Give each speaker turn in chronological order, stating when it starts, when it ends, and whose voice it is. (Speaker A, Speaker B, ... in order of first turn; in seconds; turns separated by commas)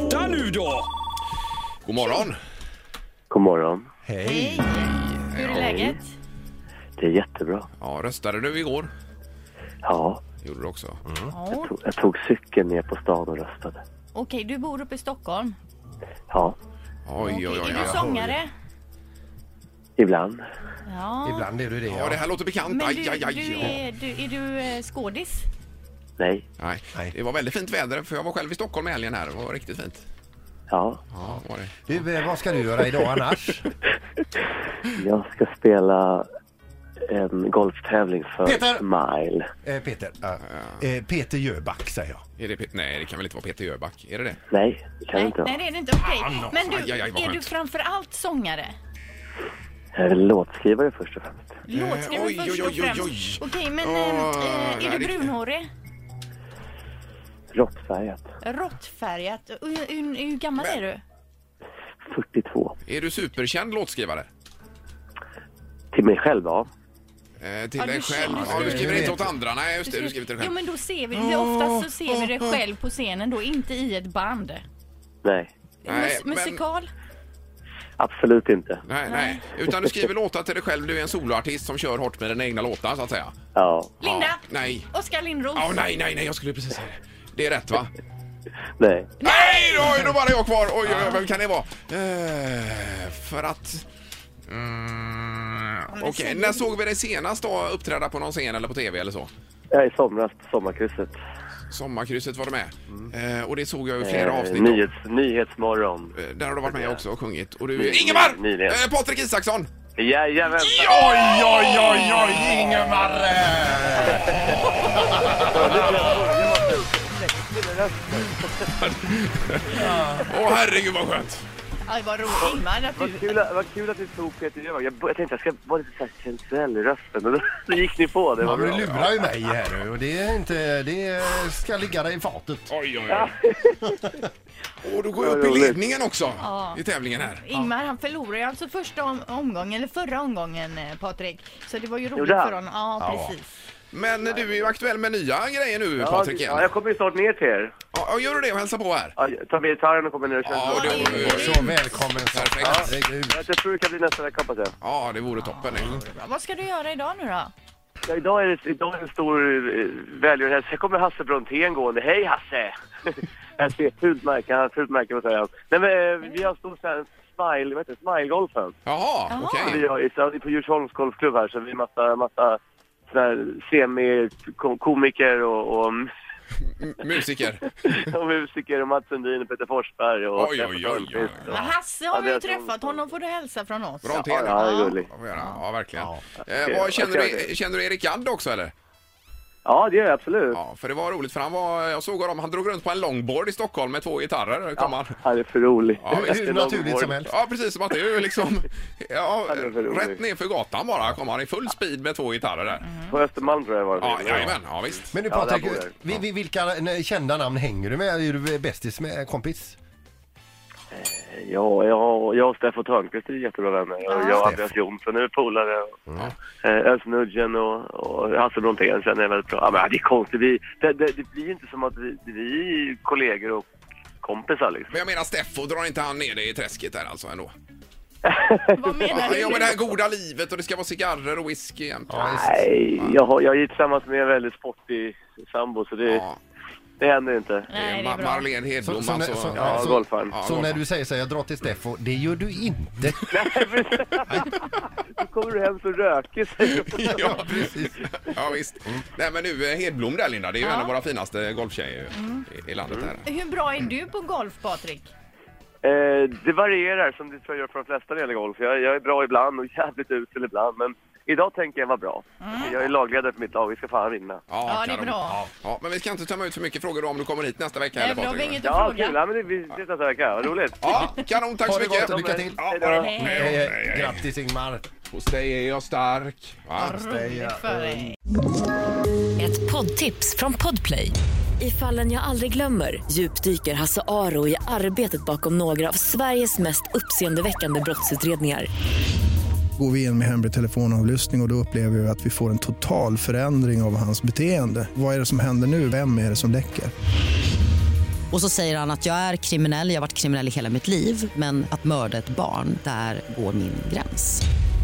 Speaker A: 1.8-2.4, Speaker B: 3.3-3.9, Speaker C: 4.0-4.7, Speaker D: 4.2-6.0, Speaker A: 4.8-5.9, Speaker B: 7.0-7.7, Speaker A: 7.8-8.9, Speaker B: 9.8-10.2, Speaker A: 10.4-11.0, Speaker D: 11.3-11.7, Speaker B: 11.6-13.8, Speaker D: 14.1-15.6, Speaker B: 16.3-16.6, Speaker A: 17.1-18.1, Speaker D: 17.2-18.5, Speaker C: 17.6-18.4, Speaker B: 20.0-20.4, Speaker D: 20.9-21.5, Speaker C: 21.2-22.2, Speaker A: 21.9-23.8, Speaker D: 22.6-25.5, Speaker B: 26.2-26.4, Speaker A: 26.6-30.0, Speaker B: 30.7-31.0, Speaker A: 31.1-32.0, Speaker C: 31.9-33.7, Speaker B: 34.9-36.3, Speaker B: 37.1-39.5, Speaker C: 38.4-38.9, Speaker C: 39.6-42.2, Speaker A: 40.5-40.8, Speaker A: 42.4-44.4, Speaker B: 44.5-45.5, Speaker D: 45.1-48.7, Speaker A: 46.4-47.5, Speaker B: 50.0-51.6, Speaker D: 51.6-55.6, Speaker A: 51.7-55.3, Speaker B: 57.5-58.3, Speaker D: 58.4-61.0, Speaker B: 62.0-62.7, Speaker A: 62.9-64.3, Speaker B: 65.9-66.7, Speaker A: 67.4-70.6, Speaker D: 67.8-69.2, Speaker C: 68.2-69.3, Speaker D: 69.8-74.6, Speaker A: 71.1-72.6, Speaker B: 75.2-75.5, Speaker D: 75.8-76.9, Speaker A: 75.8-76.6, Speaker B: 78.0-78.8, Speaker A: 78.8-83.3, Speaker D: 79.0-79.5, Speaker B: 83.5-84.0, Speaker D: 84.0-85.8, Speaker A: 84.0-84.9, Speaker A: 85.5-87.9, Speaker B: 88.8-89.2, Speaker D: 89.2-90.0, Speaker A: 89.2-93.8, Speaker A: 94.5-99.3, Speaker D: 95.9-96.7, Speaker B: 99.7-101.2, Speaker A: 101.7-104.9, Speaker B: 104.0-107.0, Speaker A: 106.1-109.7, Speaker B: 107.7-108.8, Speaker B: 110.0-111.0, Speaker A: 110.6-112.5, Speaker C: 110.8-115.9, Speaker B: 114.0-114.5, Speaker B: 115.4-118.7, Speaker A: 118.8-121.5, Speaker C: 119.7-120.3, Speaker D: 121.8-123.3, Speaker B: 122.4-129.1, Speaker C: 128.4-132.7, Speaker A: 128.5-129.0, Speaker A: 132.7-133.3, Speaker B: 133.1-134.0, Speaker A: 134.8-137.4, Speaker B: 135.2-135.8, Speaker D: 136.4-143.4, Speaker B: 142.1-142.6, Speaker C: 143.0-143.3, Speaker A: 143.9-146.7, Speaker B: 144.2-144.7, Speaker B: 146.0-147.7, Speaker A: 147.9-149.2, Speaker B: 149.2-151.6, Speaker A: 150.4-152.9, Speaker D: 150.7-152.0, Speaker C: 151.0-153.4, Speaker B: 152.6-154.7, Speaker A: 154.8-156.0, Speaker D: 155.4-157.5, Speaker B: 158.1-168.7, Speaker A: 168.8-169.8, Speaker D: 169.3-169.6, Speaker B: 169.6-176.1, Speaker A: 176.7-177.7, Speaker B: 177.8-183.1, Speaker A: 180.3-181.6, Speaker D: 181.5-184.8, Speaker A: 184.0-188.7, Speaker B: 184.1-185.2, Speaker B: 186.4-187.5, Speaker B: 189.6-190.6, Speaker A: 190.5-195.2, Speaker B: 194.8-197.2, Speaker A: 196.0-196.4, Speaker C: 196.1-197.3, Speaker A: 197.3-202.8, Speaker B: 199.5-200.2, Speaker D: 202.8-203.2, Speaker B: 203.1-204.6, Speaker A: 204.0-205.2, Speaker C: 205.1-209.8, Speaker B: 205.2-205.9, Speaker B: 210.9-215.9, Speaker D: 214.1-214.4, Speaker C: 216.1-216.3, Speaker B: 216.6-223.7, Speaker B: 224.2-224.9, Speaker A: 224.9-227.5, Speaker B: 228.2-229.3, Speaker D: 228.7-229.8, Speaker A: 229.1-232.4, Speaker C: 232.1-232.6, Speaker B: 232.2-236.2, Speaker A: 236.1-236.4, Speaker B: 237.0-237.7, Speaker D: 237.7-238.5, Speaker A: 237.7-240.8, Speaker C: 238.8-243.4, Speaker B: 239.5-240.3, Speaker B: 243.3-247.4, Speaker A: 246.7-253.2, Speaker C: 247.1-248.0, Speaker D: 250.6-250.9, Speaker D: 252.1-252.4, Speaker D: 253.2-255.1, Speaker B: 255.8-264.5, Speaker D: 262.4-262.8, Speaker A: 264.5-268.6, Speaker D: 264.6-265.4, Speaker D: 267.9-269.1, Speaker B: 268.6-270.9, Speaker A: 270.8-274.2, Speaker C: 271.6-272.6, Speaker B: 272.0-273.1, Speaker D: 272.9-273.6, Speaker C: 273.2-274.9, Speaker A: 275.1-277.0, Speaker D: 276.8-278.1, Speaker C: 276.8-278.1, Speaker E: 279.4-288.7, Speaker F: 289.8-296.9, Speaker G: 298.3-304.4